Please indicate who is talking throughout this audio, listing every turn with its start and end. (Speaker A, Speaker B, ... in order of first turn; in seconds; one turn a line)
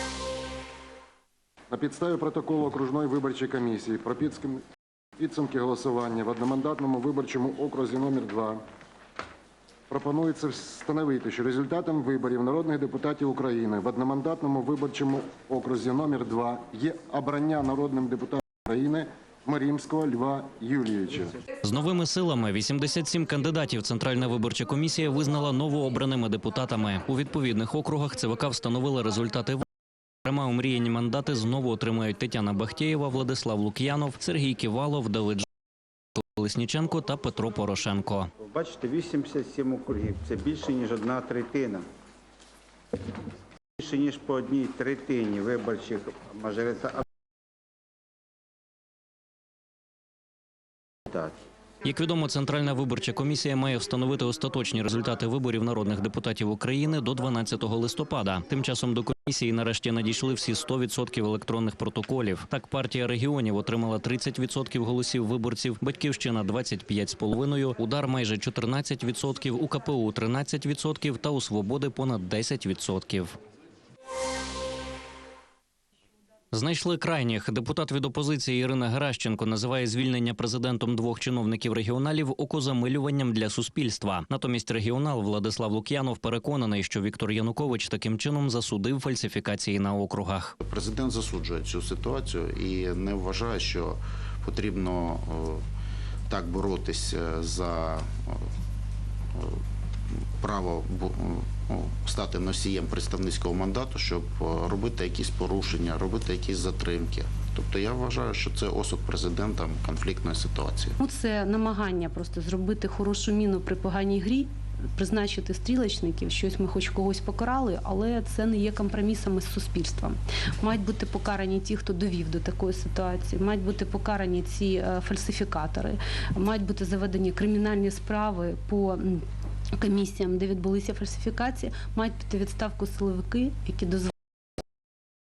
Speaker A: 1.7-4.6
Speaker A: 5.2-8.6
Speaker A: 9.9-21.3
Speaker B: 21.6-29.6
Speaker B: 30.2-35.5
Speaker B: 36.1-38.3
Speaker C: 38.4-41.9
Speaker C: 43.8-47.0
Speaker C: 51.1-51.4
Speaker B: 51.8-73.4
Speaker B: 76.5-90.5
Speaker D: 90.6-95.6
Speaker D: 96.3-98.5
Speaker D: 99.3-99.6
Speaker D: 100.4-111.0
Speaker E: 111.0-129.2
Speaker E: 129.8-134.1